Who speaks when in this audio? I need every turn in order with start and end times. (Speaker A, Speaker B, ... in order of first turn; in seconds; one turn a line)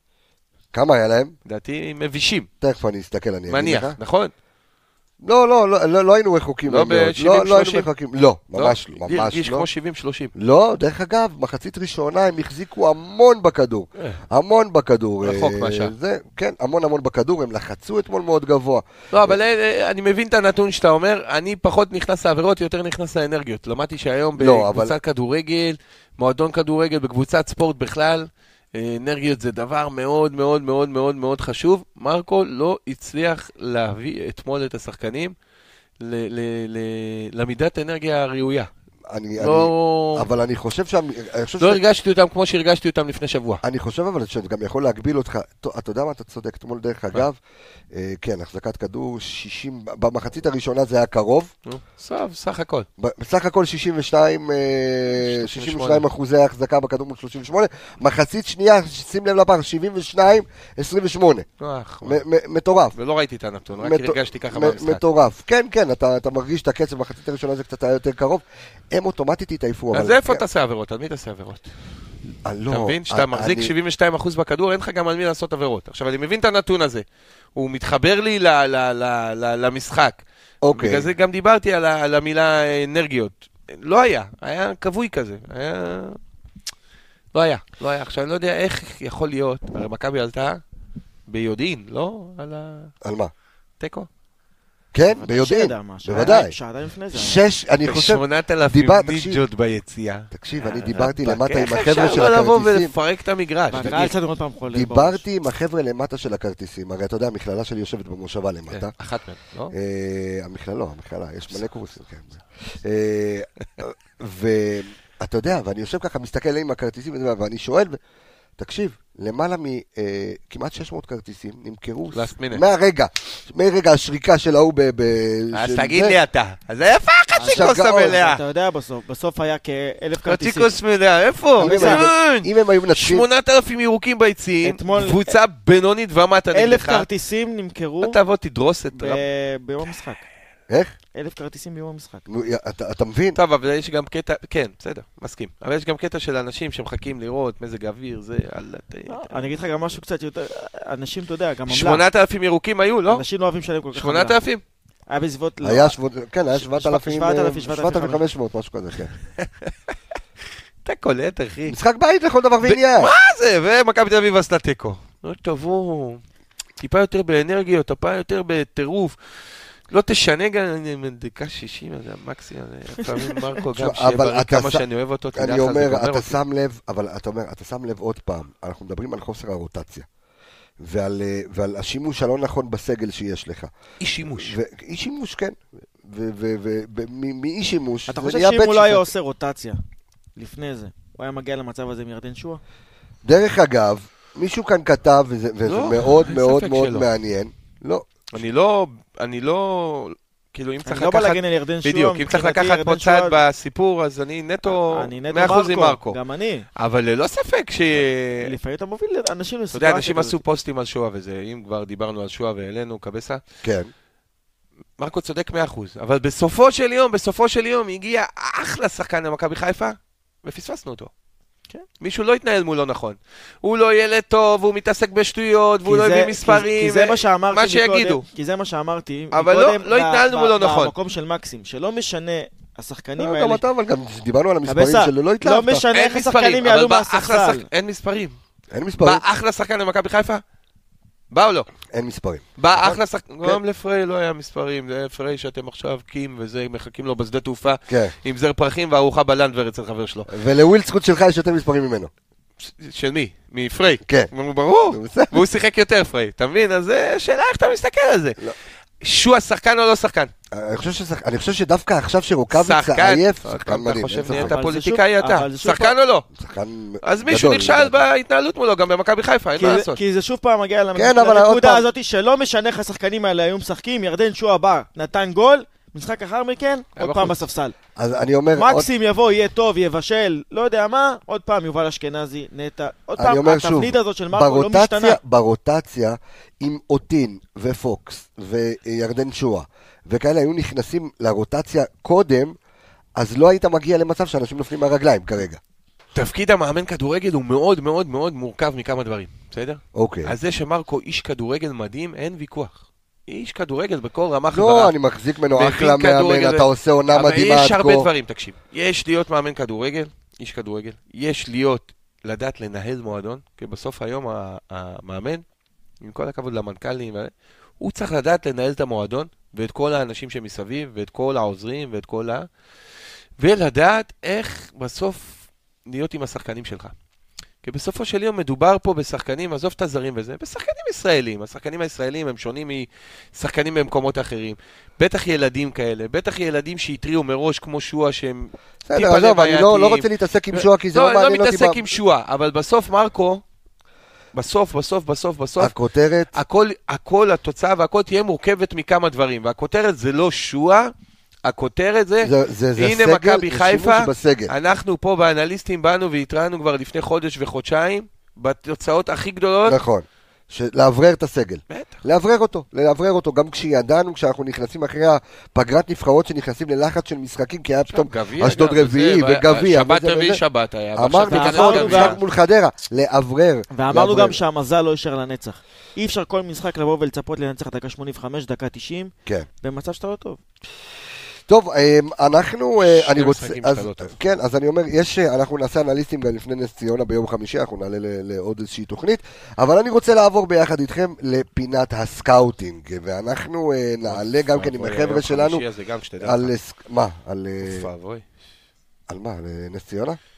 Speaker A: 0.7-1.4
Speaker B: 1.5-2.5
Speaker A: 2.6-4.0
Speaker B: 3.5-4.3
Speaker A: 5.2-9.7
Speaker B: 6.7-7.9
Speaker B: 8.5-10.3
Speaker A: 10.3-19.4
Speaker B: 15.2-15.9
Speaker B: 19.1-35.4
Speaker A: 24.4-24.9
Speaker B: 36.0-38.7
Speaker A: 39.1-41.8
Speaker B: 39.4-40.3
Speaker B: 41.6-43.6
Speaker A: 43.6-47.4
Speaker A: 47.9-51.5
Speaker B: 51.7-52.9
Speaker A: 53.0-61.5
Speaker B: 55.1-56.0
Speaker B: 61.6-62.2
Speaker A: 62.0-63.0
Speaker B: 63.0-65.0
Speaker A: 63.8-70.4
Speaker B: 69.9-71.7
Speaker A: 72.5-73.7
Speaker B: 72.7-77.0
Speaker B: 77.6-86.2
Speaker A: 80.6-81.1
Speaker B: 87.3-90.6
Speaker B: 91.3-92.9
Speaker A: 93.0-93.3
Speaker B: 93.8-94.1
Speaker A: 94.9-96.6
Speaker C: 95.1-97.4
Speaker A: 97.1-99.4
Speaker B: 97.8-104.1
Speaker A: 100.3-102.9
Speaker C: 103.7-105.2
Speaker A: 104.7-108.9
Speaker B: 108.7-109.7
Speaker A: 109.7-118.0
Speaker A: 118.6-126.2
Speaker B: 122.1-122.6
Speaker B: 125.5-128.4
Speaker C: 127.4-130.7
Speaker A: 127.5-128.2
Speaker B: 130.2-137.1
Speaker A: 131.6-133.3
Speaker C: 131.6-132.1
Speaker C: 134.6-135.3
Speaker C: 136.5-138.2
Speaker B: 138.0-139.2
Speaker C: 138.9-140.2
Speaker A: 140.7-140.9
Speaker C: 141.2-142.3
Speaker A: 142.3-143.4
Speaker B: 143.3-149.5
Speaker C: 149.1-152.0
Speaker B: 151.7-153.2
Speaker C: 153.1-154.4
Speaker B: 153.9-154.6
Speaker C: 155.1-156.0
Speaker A: 155.6-159.1
Speaker C: 156.6-158.2
Speaker B: 159.4-159.9
Speaker B: 160.8-161.8
Speaker A: 161.7-163.1
Speaker B: 162.6-166.2
Speaker B: 166.8-169.2
Speaker B: 169.9-176.4
Speaker A: 173.8-174.8
Speaker A: 175.3-180.1
Speaker A: 180.8-183.7
Speaker B: 184.0-184.6
Speaker A: 184.3-189.1
Speaker C: 188.1-189.8
Speaker C: 190.4-192.6
Speaker A: 193.2-198.1
Speaker B: 195.7-197.1
Speaker B: 198.3-206.2
Speaker C: 200.8-203.4
Speaker C: 204.7-206.7
Speaker B: 206.8-208.5
Speaker C: 208.4-210.4
Speaker B: 209.7-213.4
Speaker A: 213.6-213.9
Speaker B: 215.0-221.1
Speaker B: 222.0-228.2
Speaker C: 225.8-233.6
Speaker B: 229.3-230.9
Speaker A: 233.2-235.8
Speaker C: 234.7-237.7
Speaker B: 235.9-238.4
Speaker A: 238.7-239.2
Speaker B: 239.0-240.4
Speaker B: 241.3-241.7
Speaker A: 241.9-243.6
Speaker B: 242.6-250.3
Speaker A: 247.9-248.2
Speaker A: 250.3-252.1
Speaker B: 252.6-258.4
Speaker A: 254.1-254.3
Speaker A: 254.9-255.4
Speaker B: 259.0-260.3
Speaker A: 260.5-264.6
Speaker B: 262.5-266.3
Speaker C: 264.3-265.9
Speaker A: 266.4-268.0
Speaker B: 267.0-270.0
Speaker C: 269.6-277.8
Speaker A: 270.9-271.9
Speaker B: 277.0-277.4
Speaker A: 278.0-278.9
Speaker C: 278.6-285.2
Speaker A: 283.2-292.6
Speaker A: 293.2-295.6
Speaker B: 296.1-304.9
Speaker A: 299.9-300.4
Speaker A: 304.5-308.1
Speaker B: 305.6-315.4
Speaker B: 316.0-322.5
Speaker B: 323.4-326.9
Speaker B: 327.6-343.4
Speaker A: 338.9-341.8
Speaker B: 344.3-345.7
Speaker A: 345.6-346.4
Speaker B: 346.3-350.9
Speaker B: 351.4-359.8
Speaker A: 352.2-354.5
Speaker A: 359.7-370.4
Speaker B: 361.7-362.0
Speaker B: 367.9-372.2
Speaker A: 371.0-374.4
Speaker C: 371.3-372.2
Speaker C: 373.7-380.4
Speaker A: 381.5-395.6
Speaker B: 382.8-384.2
Speaker B: 394.1-396.5
Speaker A: 396.2-397.9
Speaker B: 397.6-398.2
Speaker A: 399.1-400.2